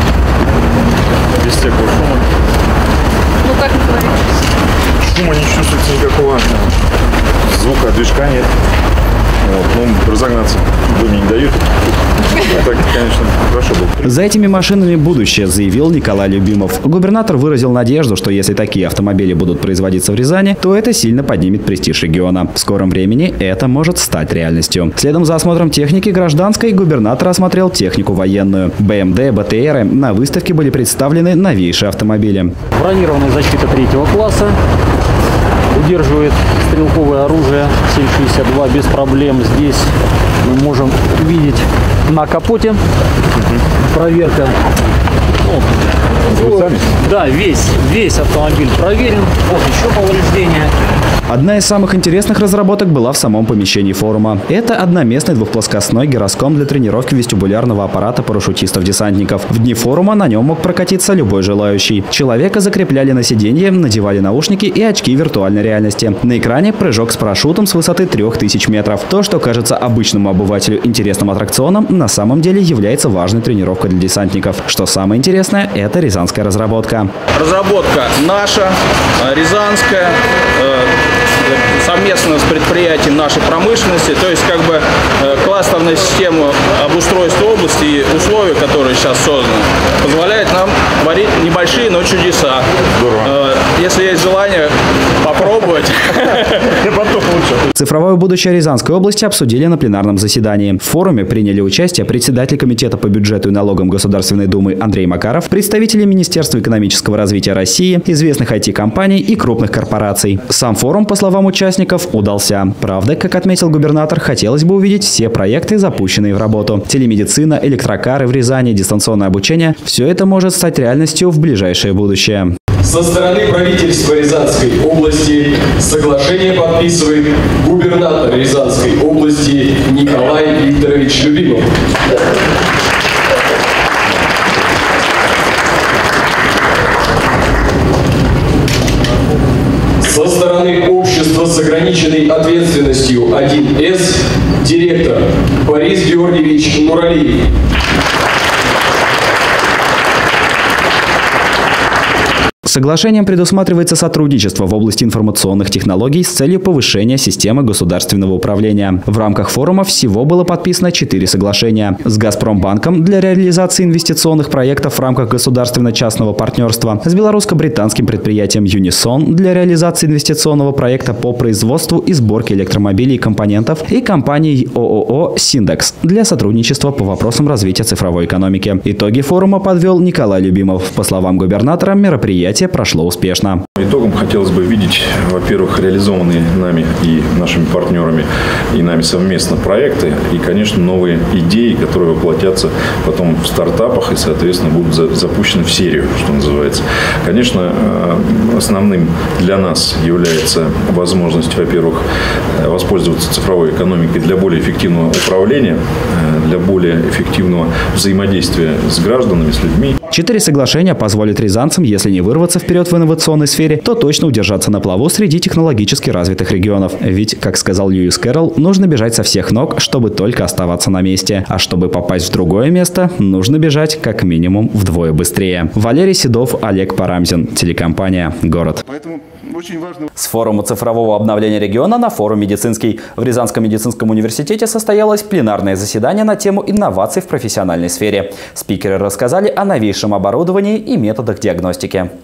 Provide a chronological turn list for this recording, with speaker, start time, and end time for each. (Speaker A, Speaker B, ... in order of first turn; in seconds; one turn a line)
Speaker A: 7.5-8.4
Speaker A: 9.5-11.6
Speaker A: 12.4-14.0
Speaker B: 14.0-32.5
Speaker C: 32.8-34.5
Speaker C: 35.8-39.8
Speaker C: 40.5-42.8
Speaker C: 44.0-44.5
Speaker A: 46.3-46.8
Speaker C: 46.4-50.6
Speaker B: 51.3-77.1
Speaker D: 77.3-80.9
Speaker D: 81.4-92.6
Speaker D: 93.2-96.8
Speaker B: 97.7-122.5
Speaker E: 122.8-131.7
Speaker E: 140.0-147.4
Speaker B: 152.7-183.6
Speaker A: 183.8-202.0
Speaker A: 202.6-209.9
Speaker B: 210.1-228.8
Speaker B: 230.2-242.1